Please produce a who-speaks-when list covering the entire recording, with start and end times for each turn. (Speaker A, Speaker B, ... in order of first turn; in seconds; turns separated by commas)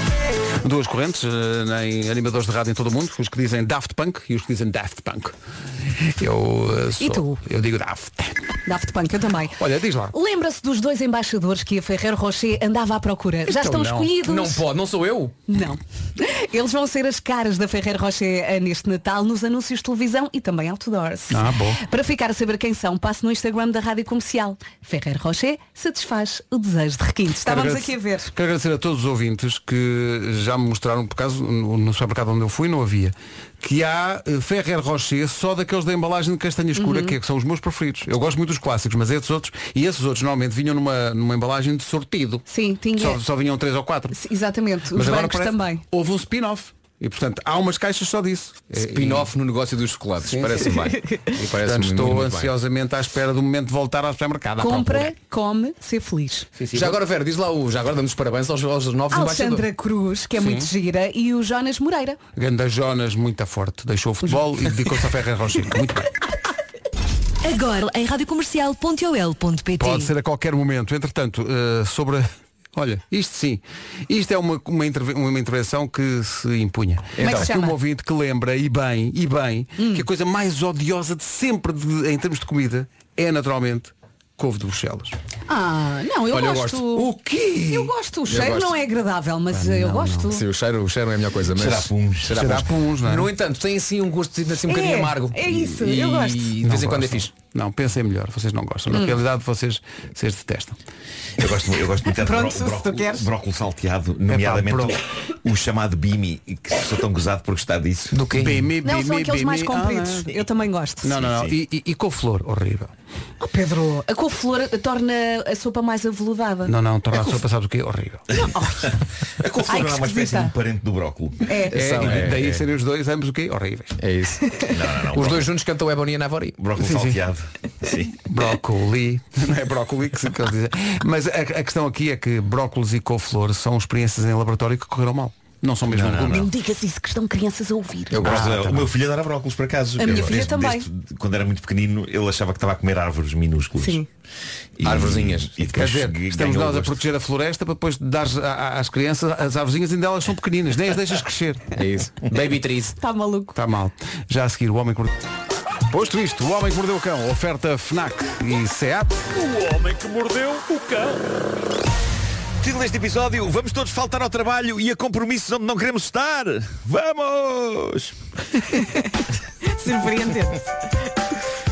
Speaker A: 0.5-5.3, Speaker A: 6.0-8.6, Speaker B: 7.0-7.4, Speaker B: 8.7-9.6, Speaker A: 9.6-10.1, Speaker B: 10.1-14.6, Speaker A: 13.5-14.1, Speaker C: 14.2-15.3, Speaker B: 15.5-28.3, Speaker A: 21.3-21.8, Speaker A: 27.4-42.5, Speaker B: 36.8-37.2, Speaker B: 42.5-43.2, Speaker A: 43.0-44.2, Speaker B: 44.1-45.8, Speaker A: 44.9-49.3, Speaker C: 48.8-52.5, Speaker A: 50.3-55.1, Speaker B: 54.6-56.5, Speaker A: 56.6-57.0, Speaker C: 56.7-59.7, Speaker B: 59.1-62.2, Speaker A: 60.4-60.7, Speaker A: 62.4-66.1, Speaker D: 67.7-69.7, Speaker A: 69.8-85.2, Speaker C: 77.2-77.5, Speaker B: 77.2-77.8, Speaker B: 79.8-80.0, Speaker B: 85.5-87.1, Speaker C: 86.3-87.0, Speaker A: 86.9-87.9, Speaker B: 87.7-90.4, Speaker C: 88.3-88.8, Speaker A: 89.5-90.3, Speaker C: 90.3-97.3, Speaker E: 91.5-92.4, Speaker A: 92.3-93.3, Speaker B: 94.7-96.5, Speaker A: 96.6-100.8, Speaker B: 98.9-99.2, Speaker E: 101.4-108.2, Speaker B: 102.0-103.3, Speaker A: 104.3-105.0, Speaker C: 108.1-108.7, Speaker A: 108.3-110.3, Speaker B: 108.8-111.2, Speaker A: 111.0-112.9, Speaker E: 111.2-111.6, Speaker B: 113.4-116.8, Speaker A: 116.7-118.3, Speaker E: 118.3-122.2, Speaker B: 118.4-118.9, Speaker B: 119.7-120.5, Speaker B: 121.5-121.8, Speaker C: 121.7-122.6, Speaker A: 121.7-124.0, Speaker C: 124.0-126.6, Speaker E: 124.7-125.5, Speaker E: 126.6-128.2, Speaker A: 126.8-127.2, Speaker A: 128.1-136.5, Speaker E: 135.9-136.4, Speaker B: 136.3-138.2, Speaker C: 138.1-138.7, Speaker A: 138.2-138.9, Speaker E: 138.2-144.1, Speaker B: 140.0-140.9, Speaker B: 143.8-144.1, Speaker E: 144.8-147.0, Speaker C: 144.8-145.6, Speaker A: 145.7-151.7, Speaker C: 151.8-153.0, Speaker B: 153.0-153.6, Speaker A: 153.6-155.2, Speaker A: 155.9-159.4, Speaker E: 162.6-168.2, Speaker B: 169.7-170.6